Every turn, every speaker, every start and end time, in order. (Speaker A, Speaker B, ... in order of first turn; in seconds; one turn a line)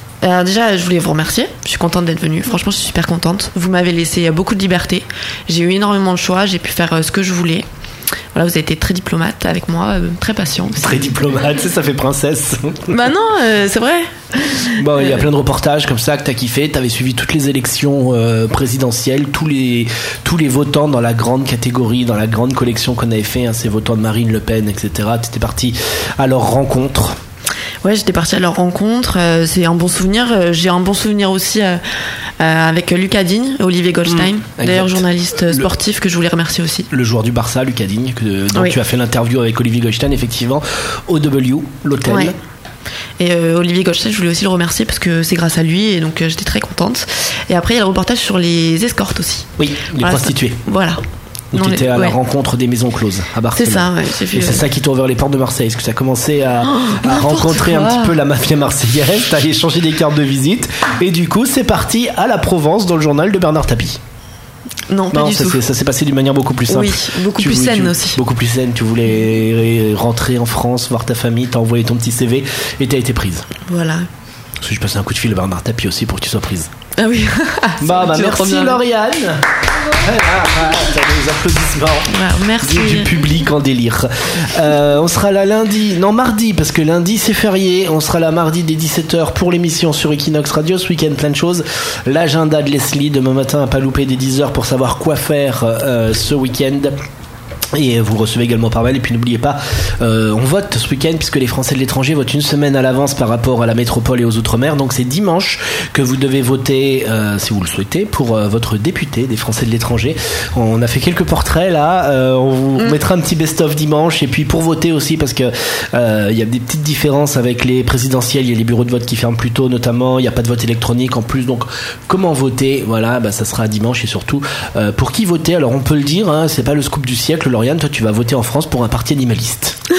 Speaker A: 0.2-7.7
Speaker A: 8.3-11.1
Speaker B: 10.8-12.9
Speaker A: 12.9-15.2
Speaker B: 14.8-27.1
Speaker A: 27.8-31.8
Speaker A: 32.4-36.9
Speaker B: 34.1-35.7
Speaker B: 36.9-42.3
Speaker A: 42.0-42.3
Speaker A: 43.2-51.0
Speaker B: 49.6-50.6
Speaker B: 51.5-64.0
Speaker A: 51.5-52.1
Speaker A: 53.5-54.6
Speaker A: 56.6-58.1
Speaker A: 64.9-65.6
Speaker B: 65.1-73.5
Speaker A: 66.7-68.2
Speaker A: 73.7-74.1
Speaker B: 74.6-76.7
Speaker A: 77.0-78.8
Speaker B: 77.8-96.9
Speaker A: 82.1-83.1
Speaker B: 97.7-129.8